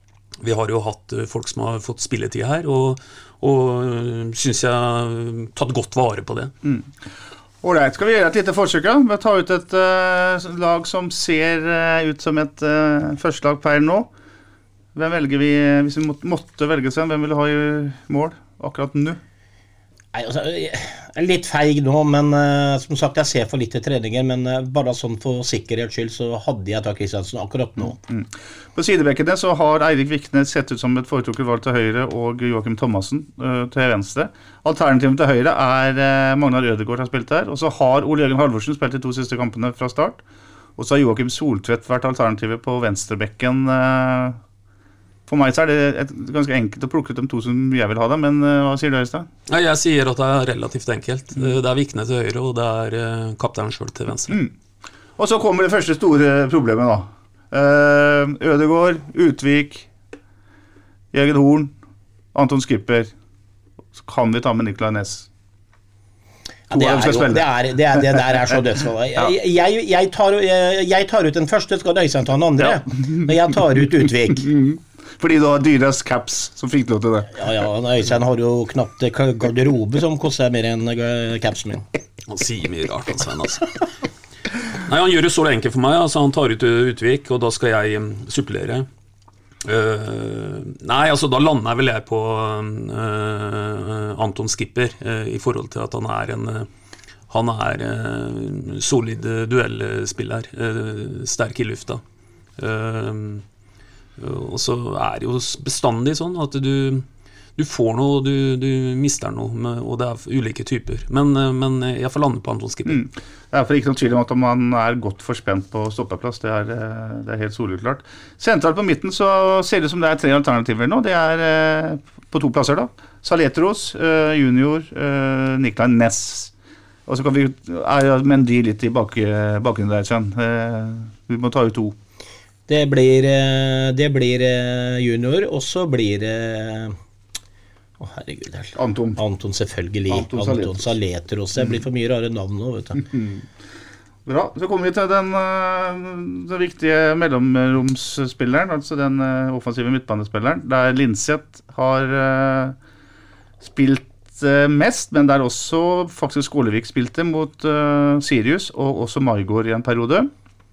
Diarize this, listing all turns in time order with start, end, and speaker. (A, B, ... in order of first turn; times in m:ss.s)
0:00.4-0:06.5 A
0:07.6-0:14.1 B
0:14.9-0:19.2 B
0:20.1-0:28.0 C
0:28.1-0:40.2 B
0:40.8-0:44.4 B
0:45.3-0:49.3 B
0:49.5-0:54.4 A
0:55.2-0:59.9 B
1:01.1-1:01.7 B
1:02.3-1:03.1 B
1:04.0-1:05.3 B
1:06.7-1:14.5 C
1:06.7-1:08.4 B
1:12.6-1:13.3 B
1:14.4-1:17.4 B
1:17.4-1:21.8 C
1:22.3-1:23.7 A
1:24.8-1:28.9 A
1:29.6-1:36.7 A
1:37.3-1:42.0 A
1:42.6-1:43.4 A
1:44.2-1:47.0 A
1:47.6-1:53.0 A
1:52.8-2:06.5 B
2:07.1-2:11.9 B
2:12.7-2:17.0 C
2:18.0-2:23.0 C
2:18.8-2:19.2 B
2:20.1-2:20.9 B
2:22.9-2:23.4 B
2:24.2-2:32.8 B
2:33.6-2:40.3 B